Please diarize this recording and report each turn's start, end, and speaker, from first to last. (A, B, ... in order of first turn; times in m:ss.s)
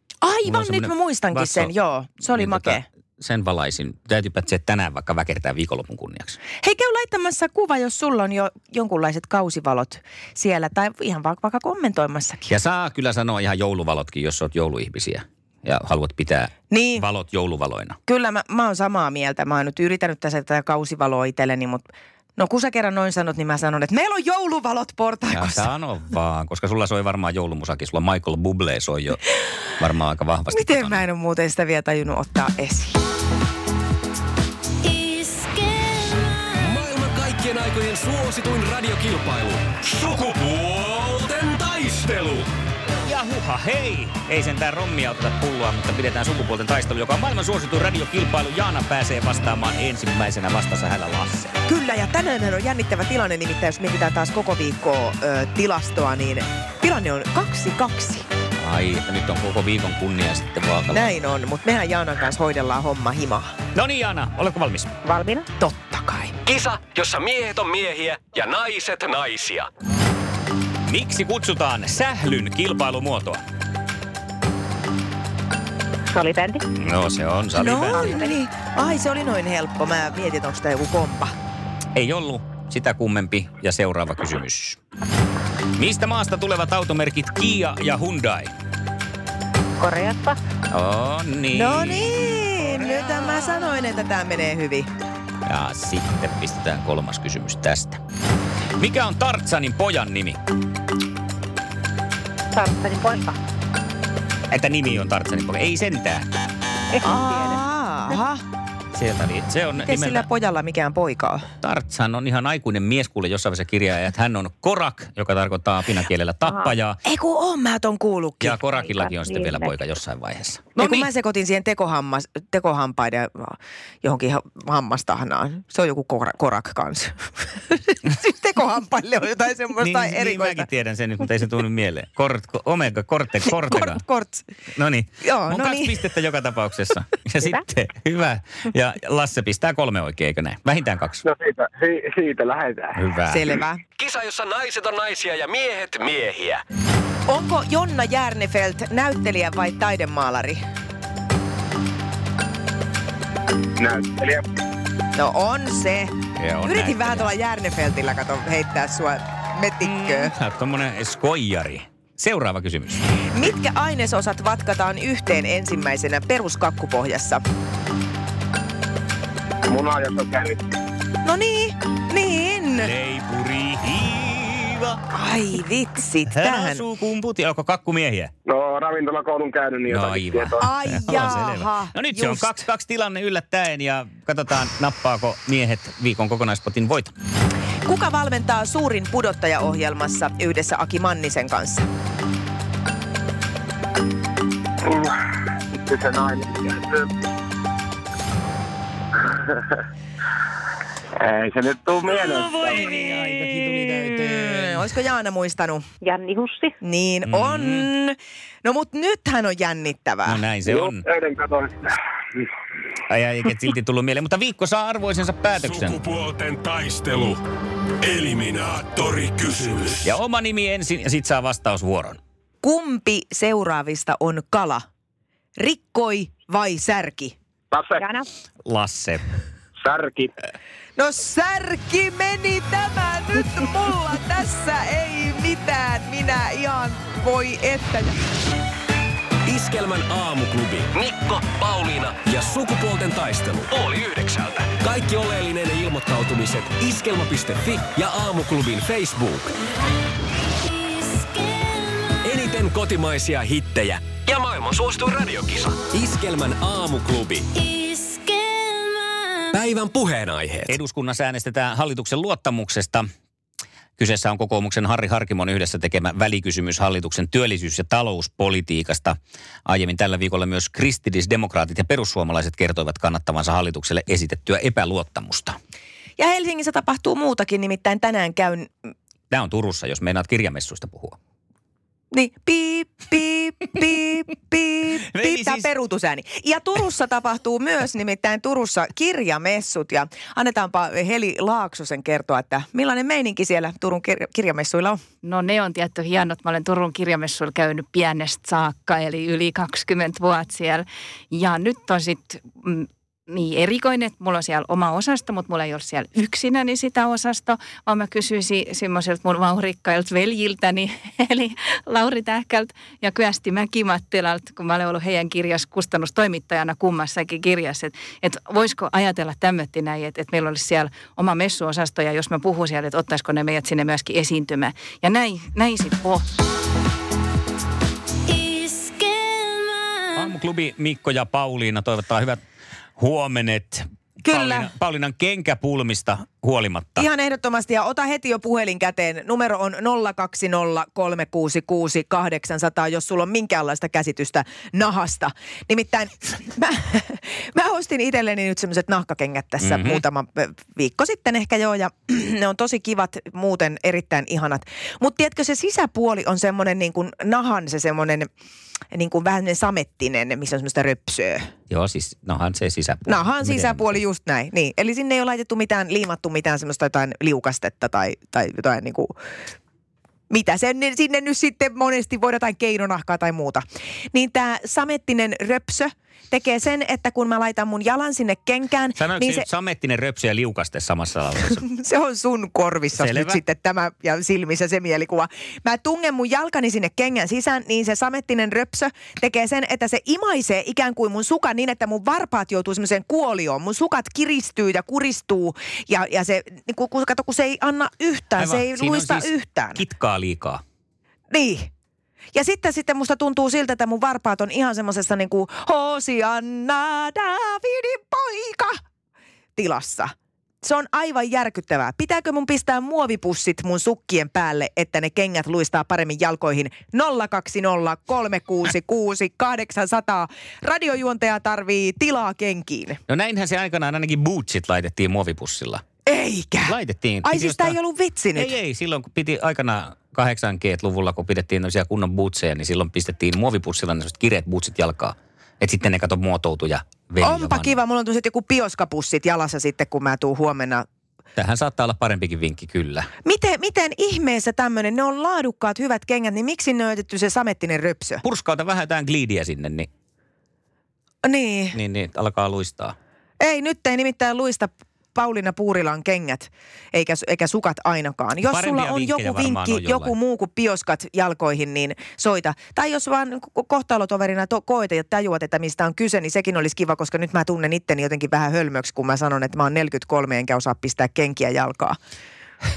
0:00.2-0:02.8 A
0:00.5-0:01.7 B
0:02.3-0:06.4 B
0:06.6-0:12.5 A
0:12.5-0:18.0 B
0:16.7-0:17.0 A
0:18.1-0:25.7 A
0:25.3-0:29.2 B
0:29.8-0:31.0 B
0:30.5-0:33.0 A
0:36.4-0:42.5 C
0:43.0-0:51.6 B
0:51.7-0:58.3 A
0:58.6-1:01.2 B
1:00.9-1:03.5 A
1:03.8-1:04.9 B
1:05.6-1:06.3 A
1:06.4-1:09.7 C
1:10.8-1:13.4 B
1:16.1-1:16.6 D
1:16.8-1:18.2 B
1:17.6-1:21.3 A
1:22.0-1:24.8 B
1:25.8-1:28.5 B
1:29.8-1:30.3 D
1:30.7-1:33.2 B
1:31.5-1:34.9 A
1:35.5-1:38.0 B
1:38.8-1:40.4 B
1:42.6-1:43.3 D
1:44.5-1:46.3 B
1:47.0-1:48.4 A
1:47.0-1:47.4 D
1:48.9-1:50.3 B
1:49.8-1:51.5 A
1:51.6-1:57.0 B
1:57.1-1:58.6 A
1:58.4-2:01.1 B
2:00.8-2:10.6 A
2:09.8-2:14.0 B
2:13.7-2:14.4 A
2:14.7-2:21.2 B
2:15.2-2:16.0 A
2:21.2-2:23.0 E
2:23.0-2:23.5 B
2:23.3-2:23.8 A
2:24.0-2:26.6 C
2:27.3-2:30.6 A
2:33.8-2:34.5 E
2:35.2-2:40.3 A
2:36.4-2:37.3 B
2:39.8-2:43.1 B
2:43.3-2:47.4 A
2:49.7-2:50.6 E
2:51.2-2:52.9 A
2:52.8-2:55.0 B
2:55.1-2:56.8 A
2:56.3-2:58.3 B
2:58.5-3:00.7 E
2:59.9-3:07.1 B
3:00.6-3:02.5 A
3:07.9-3:11.9 A
3:14.8-3:15.2 E
3:15.7-3:17.1 E
3:21.2-3:22.8 E
3:22.1-3:24.9 B
3:24.0-3:25.8 A
3:26.0-3:26.7 D
3:26.8-3:30.4 A
3:27.3-3:27.9 B
3:30.2-3:31.0 B
3:30.7-3:32.0 E
3:33.1-3:36.0 B
3:35.6-3:37.4 C
3:38.0-3:40.1 C
3:40.0-3:42.2 B
3:42.6-3:44.8 A
3:45.6-3:47.4 A
3:47.7-3:48.1 E
3:48.7-3:49.2 B
3:49.8-3:50.3 E
3:51.0-3:58.2 A
3:59.4-4:09.5 C
4:12.2-4:17.6 C
4:19.5-4:20.8 C
4:20.7-4:23.1 B
4:24.0-4:35.6 B
4:36.2-4:38.7 A
4:39.3-4:41.2 B
4:42.1-4:55.0 A
4:45.0-4:45.7 B
4:55.2-5:26.3 F
5:28.3-5:29.9 F
5:30.2-5:32.4 B
5:33.0-5:37.1 B
5:34.2-5:34.7 A
5:37.0-5:58.3 A
5:49.6-5:50.0 B
5:58.9-6:01.5 A
6:01.7-6:04.0 B
6:03.1-6:09.2 A
6:10.3-6:19.5 A
6:19.0-6:21.6 B
6:21.6-6:39.8 A
6:22.9-6:23.4 B
6:38.4-6:40.6 B
6:41.3-6:41.7 A
6:42.3-6:48.8 A
6:49.6-7:03.0 A
7:03.1-7:05.8 B
7:06.1-7:08.5 A
7:06.7-7:07.8 B
7:08.4-7:17.8 B
7:17.2-7:20.9 A
7:21.4-7:23.1 B
7:23.2-7:28.2 A
7:28.2-7:29.9 B
7:31.2-7:31.8 A
7:31.7-7:33.0 B
7:33.4-7:52.0 A
7:38.4-7:40.2 B